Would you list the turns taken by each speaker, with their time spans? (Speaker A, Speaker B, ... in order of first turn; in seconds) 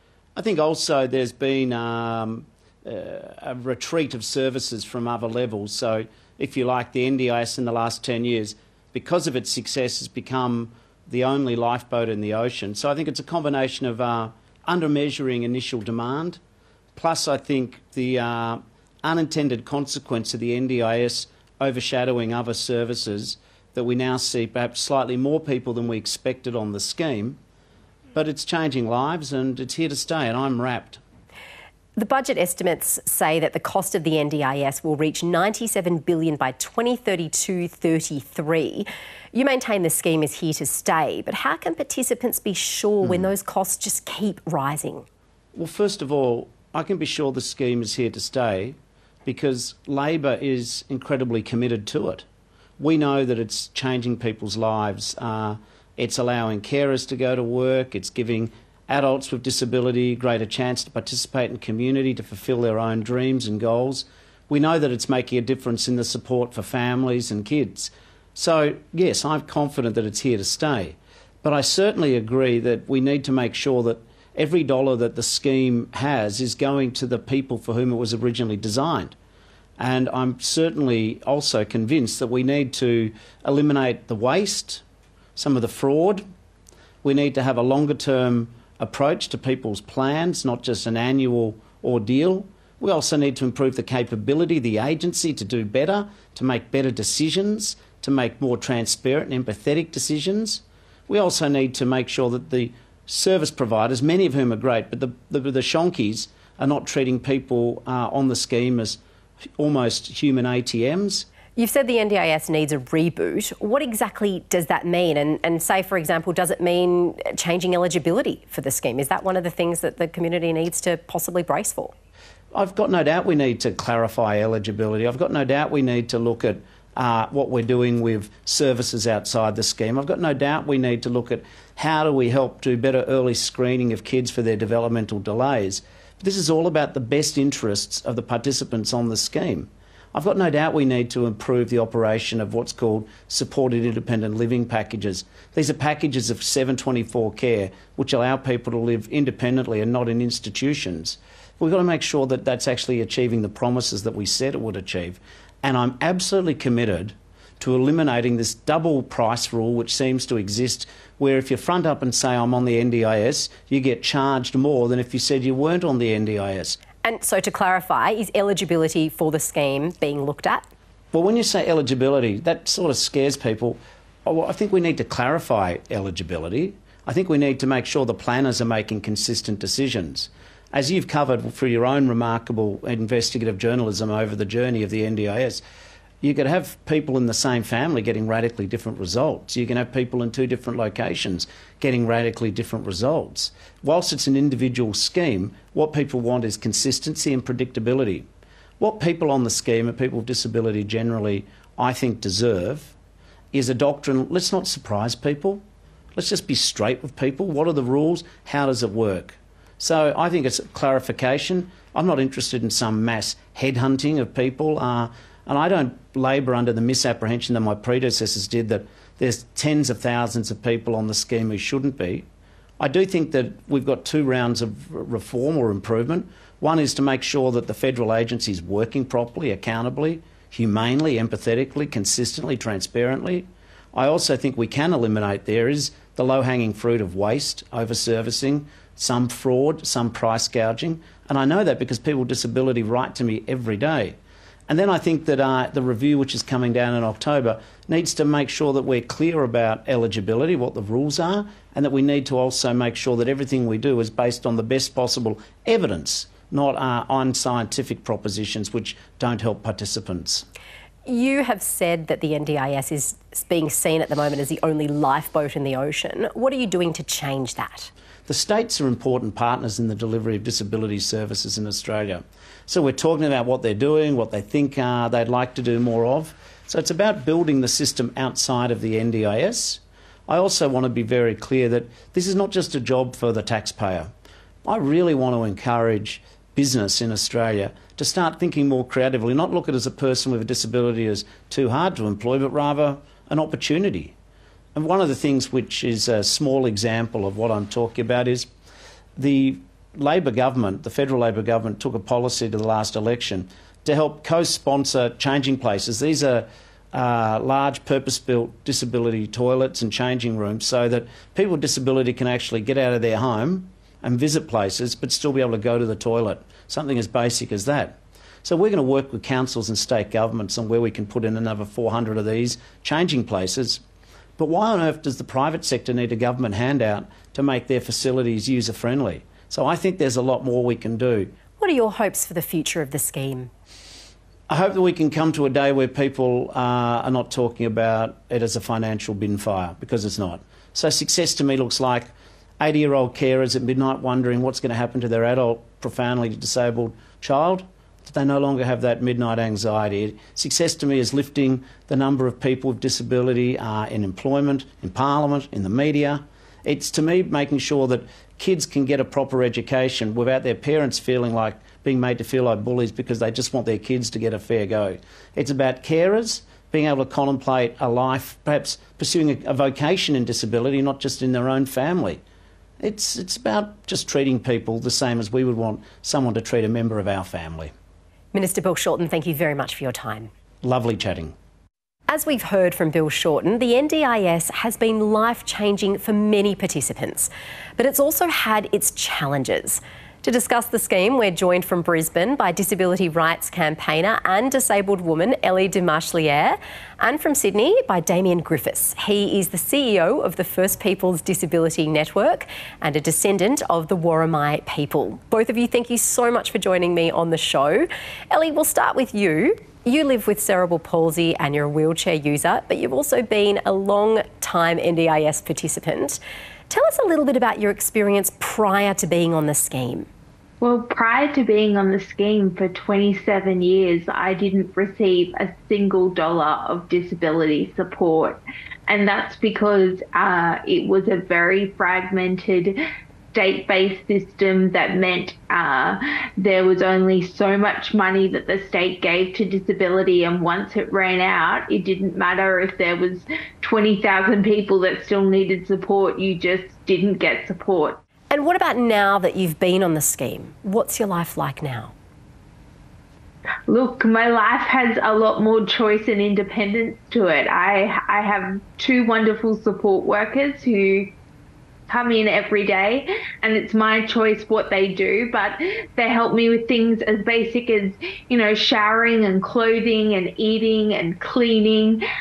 Speaker A: 0.3-16.4, 16.9-27.4, 28.1-31.0, 45.5-52.2, 52.8-79.1, 79.8-84.8, 85.3-86.2, 87.0-109.0, 109.6-111.2, 122.5-166.8, 171.1-185.6, 186.2-198.2, 198.8-202.9, 203.5-205.6, 206.1-222.2, 222.8-244.2, 244.7-260.4, 268.3-284.1, 284.6-294.1, 294.7-298.5, 299.2-323.8, 324.4-331.3, 334.5-372.2, 372.8-377.7, 380.6-381.3
Speaker B: 31.9-45.0, 111.5-121.9, 167.0-170.7, 261.1-267.9, 331.6-333.5, 378.3-380.3, 382.1-420.1, 448.3-451.9
Speaker C: 420.6-432.8, 433.3-448.0, 453.7-461.1, 461.9-472.0